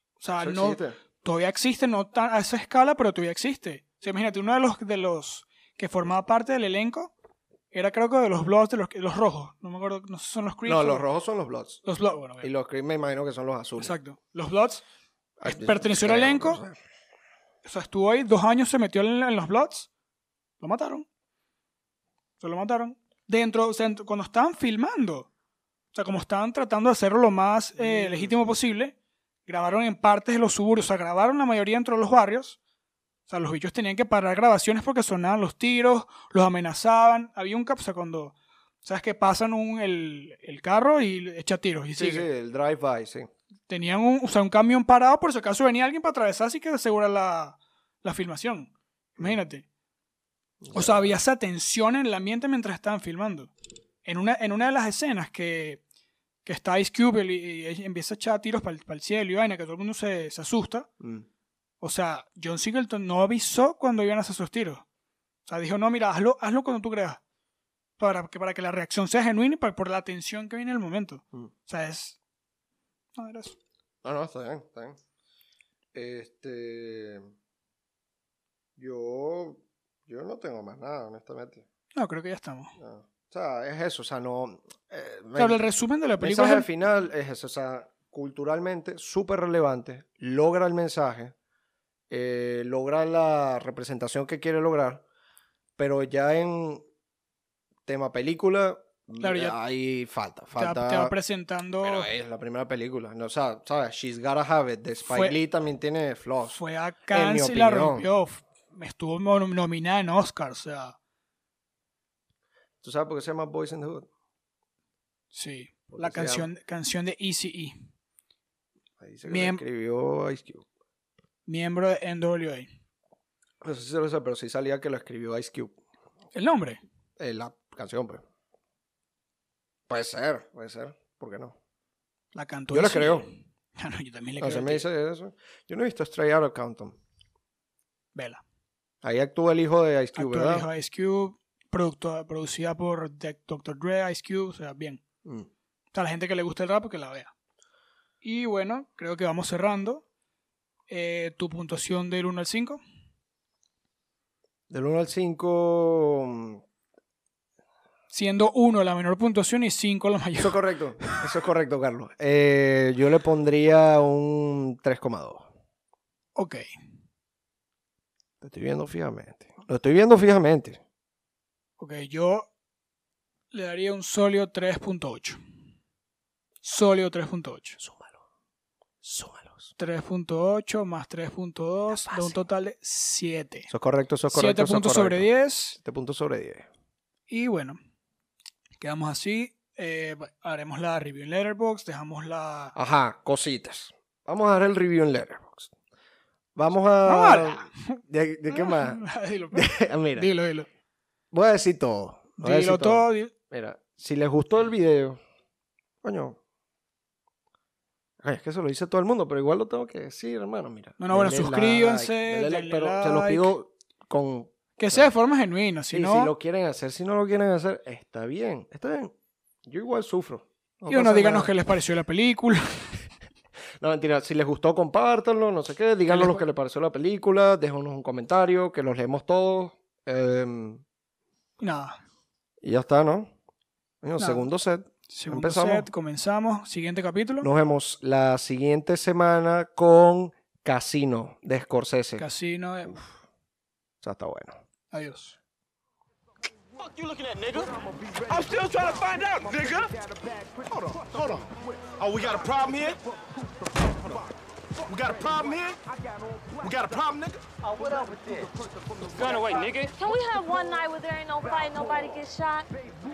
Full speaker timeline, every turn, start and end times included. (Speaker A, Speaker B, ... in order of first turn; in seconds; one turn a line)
Speaker A: 0.2-7.1
Speaker B: 0.4-1.0
Speaker A: 7.7-11.1
Speaker B: 10.7-11.8
Speaker A: 11.8-12.5
Speaker B: 12.4-13.9
Speaker A: 13.8-14.8
Speaker B: 15.4-16.8
Speaker A: 15.4-16.6
Speaker A: 17.6-19.9
Speaker A: 20.6-21.1
Speaker A: 22.4-25.3
Speaker A: 25.9-28.9
Speaker B: 27.8-28.4
Speaker A: 29.5-32.6
Speaker A: 33.3-42.3
Speaker B: 41.9-43.3
Speaker A: 43.7-49.7
Speaker B: 50.6-51.1
Speaker A: 50.7-53.5
Speaker A: 54.0-55.8
Speaker A: 56.5-60.9
Speaker B: 61.0-61.3
Speaker A: 61.8-64.8
Speaker A: 65.5-67.2
Speaker A: 68.0-72.2
Speaker A: 73.2-73.6
Speaker B: 74.0-75.0
Speaker B: 75.9-77.3
Speaker B: 78.8-81.7
Speaker A: 81.9-82.7
Speaker B: 82.8-85.6
Speaker A: 85.4-86.7
Speaker B: 86.2-91.3
Speaker B: 92.1-95.0
Speaker B: 95.8-96.8
Speaker B: 97.9-101.1
Speaker A: 99.2-99.6
Speaker A: 100.6-102.1
Speaker B: 101.8-106.6
Speaker A: 105.1-105.3
Speaker A: 106.5-111.0
Speaker B: 107.1-108.1
Speaker B: 112.8-114.1
Speaker A: 115.3-117.8
Speaker B: 115.9-116.5
Speaker B: 119.0-120.7
Speaker A: 119.3-119.6
Speaker A: 121.5-122.7
Speaker B: 123.6-125.8
Speaker A: 126.3-126.8
Speaker B: 127.2-128.2
Speaker B: 129.9-131.6
Speaker A: 132.3-134.9
Speaker B: 132.7-133.3
Speaker B: 134.4-137.0
Speaker A: 138.2-138.4
Speaker B: 139.0-140.7
Speaker A: 140.2-145.0
Speaker A: 145.9-147.3
Speaker A: 148.2-150.0
Speaker A: 150.9-152.8
Speaker B: 154.7-156.6
Speaker A: 158.1-161.1
Speaker B: 160.4-165.5
Speaker A: 166.4-166.7
Speaker B: 168.4-170.8
Speaker A: 171.8-172.5
Speaker A: 173.5-175.4
Speaker A: 176.6-177.8
Speaker B: 177.8-178.2
Speaker B: 179.0-179.7
Speaker A: 179.8-183.7
Speaker B: 181.9-182.4
Speaker B: 183.7-186.7
Speaker A: 184.3-185.8
Speaker A: 187.3-187.8
Speaker A: 188.8-192.7
Speaker B: 192.8-195.7
Speaker B: 196.6-200.3
Speaker A: 197.1-200.7
Speaker B: 201.3-205.2
Speaker A: 202.4-203.3
Speaker B: 206.0-206.4
Speaker B: 208.2-215.1
Speaker A: 211.0-213.5
Speaker A: 214.8-216.3
Speaker B: 215.9-219.1
Speaker B: 219.7-221.5
Speaker A: 220.9-223.0
Speaker B: 223.8-230.8
Speaker A: 226.1-226.4
Speaker A: 231.6-232.0
Speaker B: 232.6-233.3
Speaker B: 234.0-235.9
Speaker A: 234.2-234.5
Speaker A: 235.1-237.5
Speaker B: 237.4-242.2
Speaker A: 242.2-243.0
Speaker B: 244.0-244.6
Speaker A: 244.9-245.4
Speaker C: 246.8-250.0
Speaker C: 250.7-253.0
Speaker C: 253.9-254.3
Speaker C: 254.8-255.8
Speaker C: 256.6-259.9
Speaker D: 260.0-262.7